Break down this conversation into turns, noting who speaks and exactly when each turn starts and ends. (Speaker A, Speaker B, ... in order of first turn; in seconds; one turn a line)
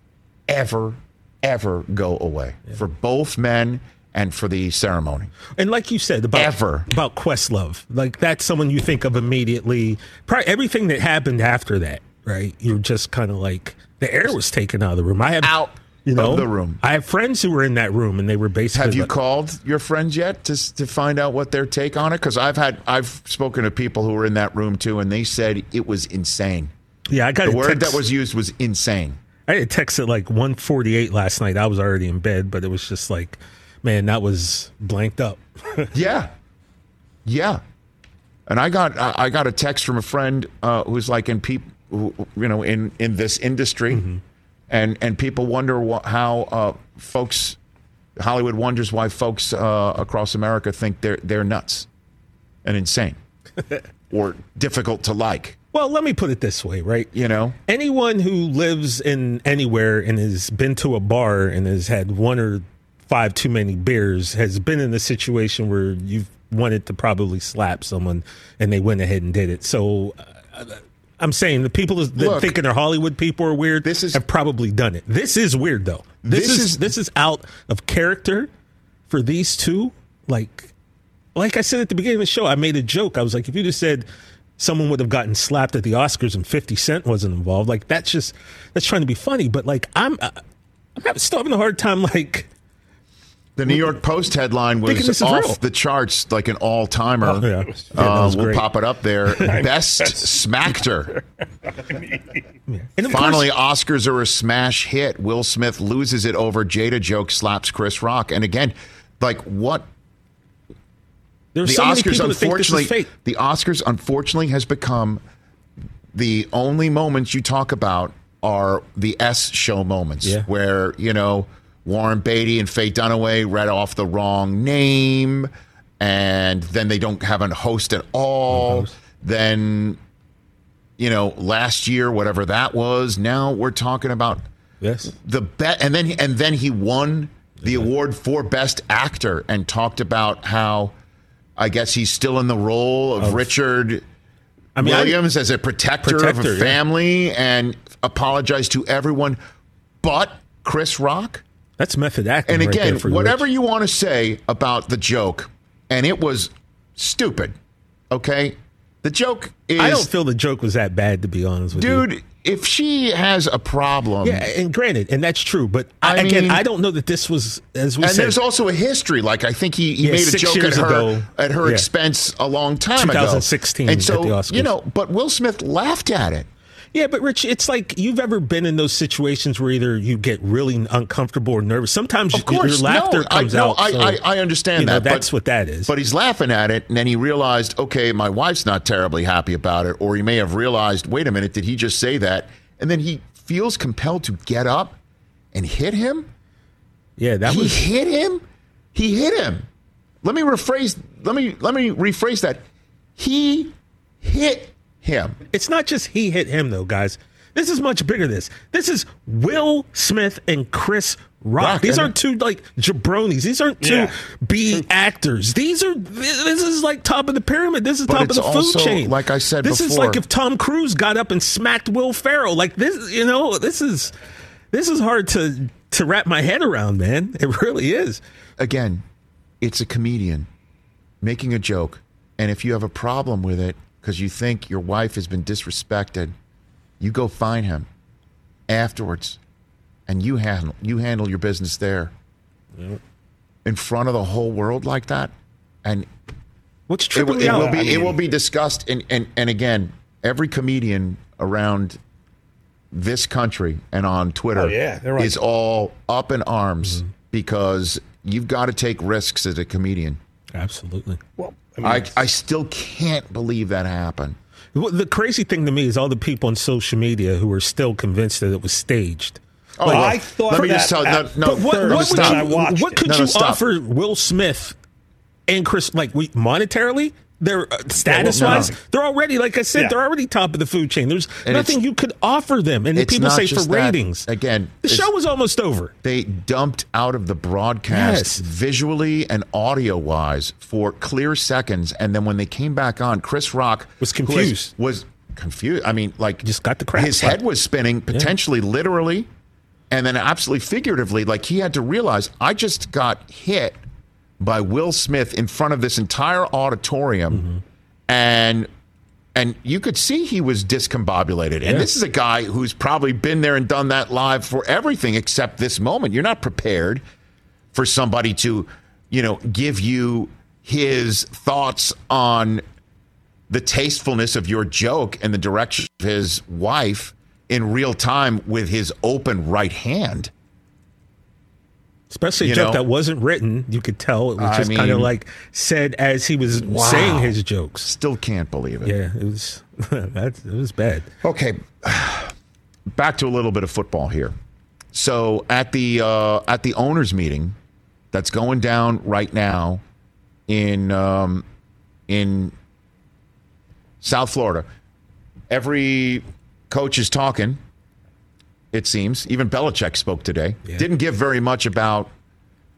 Speaker A: 0.5-5.3
Speaker B: 5.6-19.1
Speaker A: 6.3-6.9
Speaker A: 15.4-16.8
Speaker A: 18.8-26.7
Speaker B: 27.1-28.0
Speaker A: 27.4-29.2
Speaker B: 29.5-35.9
Speaker A: 35.9-36.3
Speaker A: 37.3-37.6
Speaker A: 38.5-44.1
Speaker B: 43.9-44.2
Speaker A: 44.7-47.6
Speaker A: 48.2-51.9
Speaker A: 52.6-53.2
Speaker A: 54.1-55.6
Speaker B: 55.7-57.1
Speaker A: 57.1-57.6
Speaker B: 57.7-78.5
Speaker A: 72.2-72.6
Speaker A: 73.8-74.2
Speaker A: 76.2-76.9
Speaker B: 79.1-80.7
Speaker B: 81.3-84.1
Speaker B: 84.6-90.4
Speaker B: 91.0-92.5
Speaker A: 93.6-101.2
Speaker B: 94.8-95.6
Speaker B: 97.2-98.7
Speaker C: 99.6-100.1
Speaker B: 102.7-103.5
Speaker A: 103.1-109.9
Speaker B: 111.5-113.1
Speaker A: 111.6-115.2
Speaker A: 116.1-130.0
Speaker B: 128.5-128.9
Speaker A: 131.0-134.4
Speaker B: 134.8-135.1
Speaker A: 135.2-140.9
Speaker A: 141.6-144.0
Speaker B: 143.2-143.5
Speaker B: 144.8-145.2
Speaker A: 144.8-149.4
Speaker B: 146.0-146.8
Speaker A: 150.0-151.4
Speaker B: 151.8-153.4
Speaker A: 152.5-157.6
Speaker A: 158.1-160.1
Speaker B: 159.8-162.1
Speaker A: 161.7-164.5
Speaker B: 164.2-168.4
Speaker A: 166.0-166.6
Speaker A: 168.0-176.5
Speaker B: 170.0-171.9
Speaker B: 173.0-174.7
Speaker B: 176.9-184.2
Speaker A: 182.3-185.3
Speaker B: 184.8-185.9
Speaker A: 185.9-195.0
Speaker A: 195.5-196.3
Speaker B: 197.2-197.8
Speaker A: 197.5-198.4
Speaker A: 198.9-199.7
Speaker A: 200.2-202.6
Speaker A: 203.2-205.4
Speaker B: 205.5-224.1
Speaker A: 211.6-212.1
Speaker C: 213.8-214.1
Speaker A: 218.1-220.2
Speaker B: 224.7-228.2
Speaker A: 228.6-229.0
Speaker A: 229.6-230.5
Speaker A: 231.2-236.3
Speaker A: 237.0-237.9
Speaker A: 238.7-239.4
Speaker A: 240.1-242.1
Speaker A: 243.7-245.3
Speaker B: 246.9-248.1
Speaker A: 247.1-252.0
Speaker C: 247.5-247.9
Speaker A: 252.9-260.2
Speaker C: 254.6-255.4
Speaker B: 260.5-261.2
Speaker C: 261.4-262.1
Speaker A: 261.8-264.4
Speaker B: 264.8-270.8
Speaker A: 269.8-273.6
Speaker C: 269.9-273.0
Speaker B: 271.4-274.8
Speaker B: 275.5-284.3
Speaker A: 278.1-278.7
Speaker A: 281.5-281.8
Speaker A: 282.9-285.1
Speaker B: 284.8-285.9
Speaker A: 286.0-299.3
Speaker B: 287.9-288.4
Speaker B: 294.0-294.7
Speaker B: 296.4-297.4
Speaker A: 299.9-303.8
Speaker A: 304.4-307.5
Speaker B: 307.3-307.6
Speaker A: 308.1-308.7
Speaker A: 309.4-317.0
Speaker A: 317.7-322.6
Speaker A: 323.5-330.3
Speaker B: 332.1-337.9
Speaker A: 332.4-332.8
Speaker A: 334.4-335.1
Speaker A: 336.6-339.0
Speaker B: 338.9-341.1
Speaker A: 341.2-342.3
Speaker A: 342.9-344.3
Speaker A: 344.9-347.6
Speaker A: 348.1-349.8
Speaker A: 350.5-351.4
Speaker A: 352.1-352.5
Speaker A: 354.0-354.7
Speaker A: 355.5-357.6
Speaker A: 358.7-362.1